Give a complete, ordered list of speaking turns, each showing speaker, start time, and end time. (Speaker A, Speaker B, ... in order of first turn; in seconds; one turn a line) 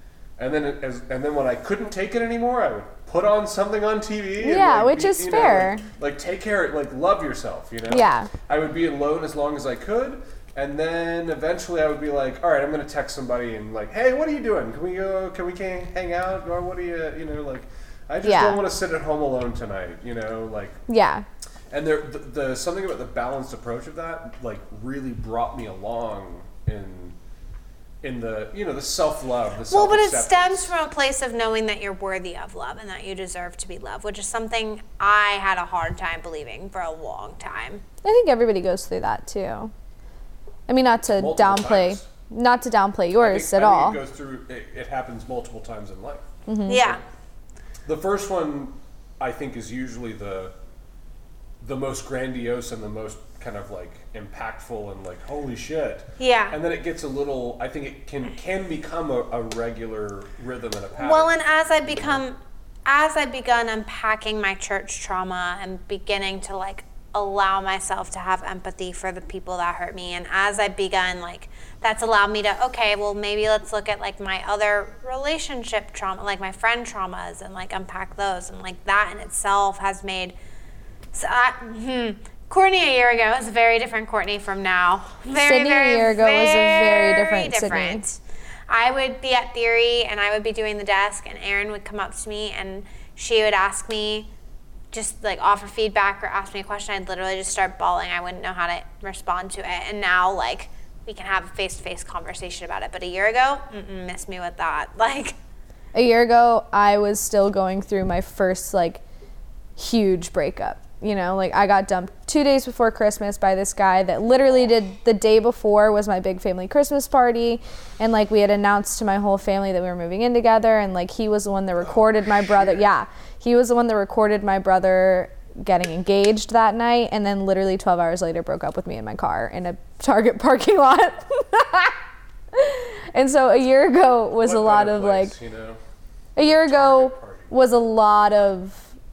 Speaker A: 0.4-20.8
Speaker B: 4.4-5.8
Speaker B: 7.9-8.3
Speaker B: 18.2-18.6
Speaker B: 20.9-21.2
Speaker A: 21.7-27.1
Speaker A: 28.0-30.7
Speaker C: 29.7-37.8
Speaker B: 38.0-39.7
Speaker B: 40.7-44.0
Speaker A: 41.0-42.1
Speaker A: 43.2-46.3
Speaker B: 46.5-46.8
Speaker C: 46.6-47.0
Speaker A: 47.8-50.5
Speaker A: 51.6-62.2
Speaker C: 56.2-56.6
Speaker C: 61.0-80.3
Speaker C: 81.1-94.3
Speaker B: 85.4-88.0
Speaker C: 94.9-105.4
Speaker B: 105.9-109.0
Speaker B: 109.8-132.0
Speaker B: 132.5-135.3
Speaker A: 134.4-135.8
Speaker B: 136.3-138.9
Speaker A: 136.4-137.5